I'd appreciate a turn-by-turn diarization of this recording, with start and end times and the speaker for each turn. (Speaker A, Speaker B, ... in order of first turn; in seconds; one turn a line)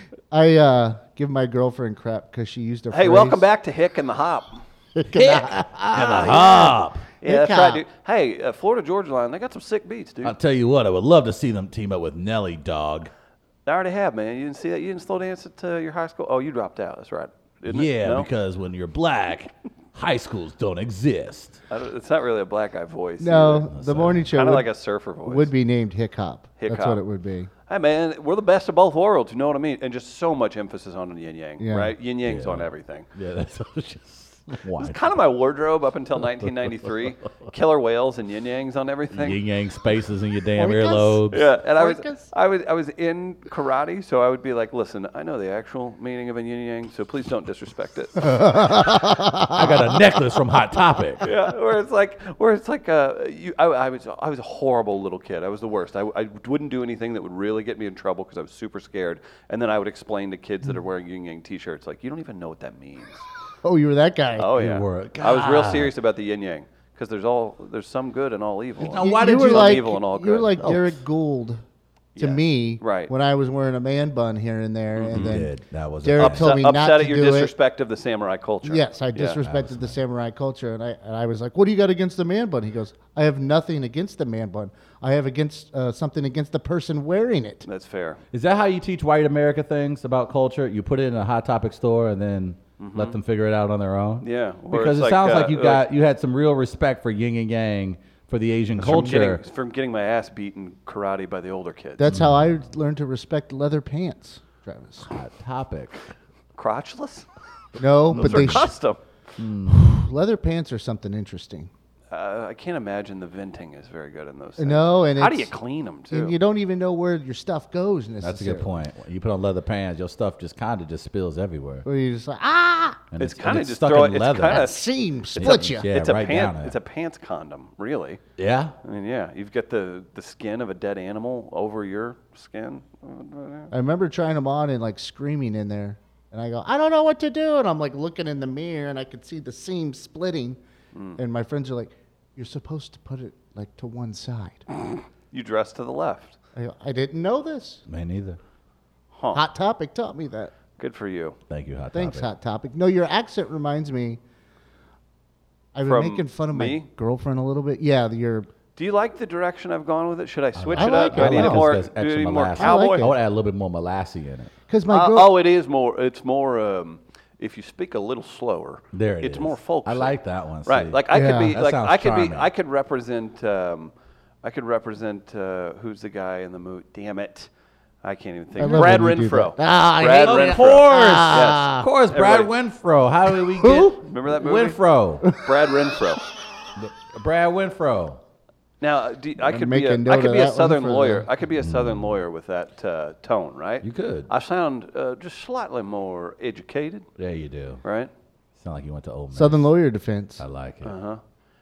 Speaker A: 0.3-3.4
Speaker B: 2.9-4.6
Speaker A: 5.0-7.8
Speaker C: 5.1-7.0
Speaker B: 7.2-10.4
Speaker C: 10.2-13.1
Speaker B: 13.7-18.3
Speaker C: 17.7-21.6
Speaker B: 21.7-25.5
Speaker A: 23.2-27.5
Speaker C: 23.7-24.3
Speaker B: 26.6-27.0
Speaker B: 27.7-33.1
Speaker A: 31.6-32.0
Speaker C: 32.2-35.2
Speaker B: 34.8-39.4
Speaker C: 36.2-37.5
Speaker C: 39.1-41.5
Speaker A: 40.6-41.2
Speaker B: 41.3-48.7
Speaker A: 41.8-42.3
Speaker A: 48.4-49.8
Speaker C: 49.5-51.3
Speaker B: 51.2-63.2
Speaker A: 63.6-64.5
Speaker B: 64.4-70.5
Speaker C: 64.6-65.9
Speaker C: 68.8-69.9
Speaker A: 69.0-71.6
Speaker C: 70.6-71.0
Speaker B: 72.2-73.1
Speaker A: 72.2-77.5
Speaker B: 74.9-75.4
Speaker C: 75.1-76.7
Speaker B: 76.2-79.4
Speaker A: 78.6-87.7
Speaker C: 79.4-80.0
Speaker B: 87.7-88.2
Speaker C: 88.3-99.4
Speaker B: 92.8-93.2
Speaker B: 94.2-95.9
Speaker B: 98.8-102.2
Speaker A: 98.8-99.2
Speaker A: 102.0-105.1
Speaker C: 102.1-102.7
Speaker C: 105.1-106.0
Speaker B: 106.5-107.3
Speaker A: 107.8-108.7
Speaker B: 108.0-109.0
Speaker C: 108.1-108.7
Speaker C: 109.4-110.1
Speaker A: 109.7-111.7
Speaker B: 112.1-116.4
Speaker A: 114.6-115.5
Speaker A: 116.1-118.8
Speaker C: 118.2-121.9
Speaker A: 121.8-123.0
Speaker C: 123.1-124.7
Speaker B: 123.2-128.2
Speaker A: 124.5-125.9
Speaker C: 125.4-126.8
Speaker C: 128.4-128.8
Speaker B: 128.8-133.7
Speaker A: 133.7-140.6
Speaker B: 140.9-141.2
Speaker A: 141.2-144.7
Speaker B: 145.3-146.4
Speaker A: 146.6-147.8
Speaker C: 147.9-148.4
Speaker B: 149.1-149.5
Speaker A: 149.3-150.5
Speaker B: 150.8-151.4
Speaker C: 151.5-152.3
Speaker A: 151.9-154.2
Speaker A: 155.7-158.5
Speaker B: 155.8-156.9
Speaker B: 158.8-163.1
Speaker C: 160.6-164.5
Speaker A: 160.7-161.8
Speaker A: 162.6-163.2
Speaker A: 164.7-165.3
Speaker B: 164.9-177.5
Speaker C: 168.9-172.5
Speaker A: 171.1-171.6
Speaker B: 178.0-182.5
Speaker A: 178.6-181.9
Speaker C: 178.7-179.0
Speaker C: 180.2-185.3
Speaker A: 183.5-183.9
Speaker B: 183.6-184.8
Speaker B: 185.3-186.3
Speaker C: 186.8-188.2
Speaker B: 188.8-197.1
Speaker A: 189.4-191.3
Speaker C: 191.6-192.2
Speaker C: 193.8-194.3
Speaker C: 197.2-197.8
Speaker B: 197.8-198.1
Speaker C: 198.6-199.7
Speaker A: 199.3-200.4
Speaker C: 200.4-200.9
Speaker B: 200.8-201.2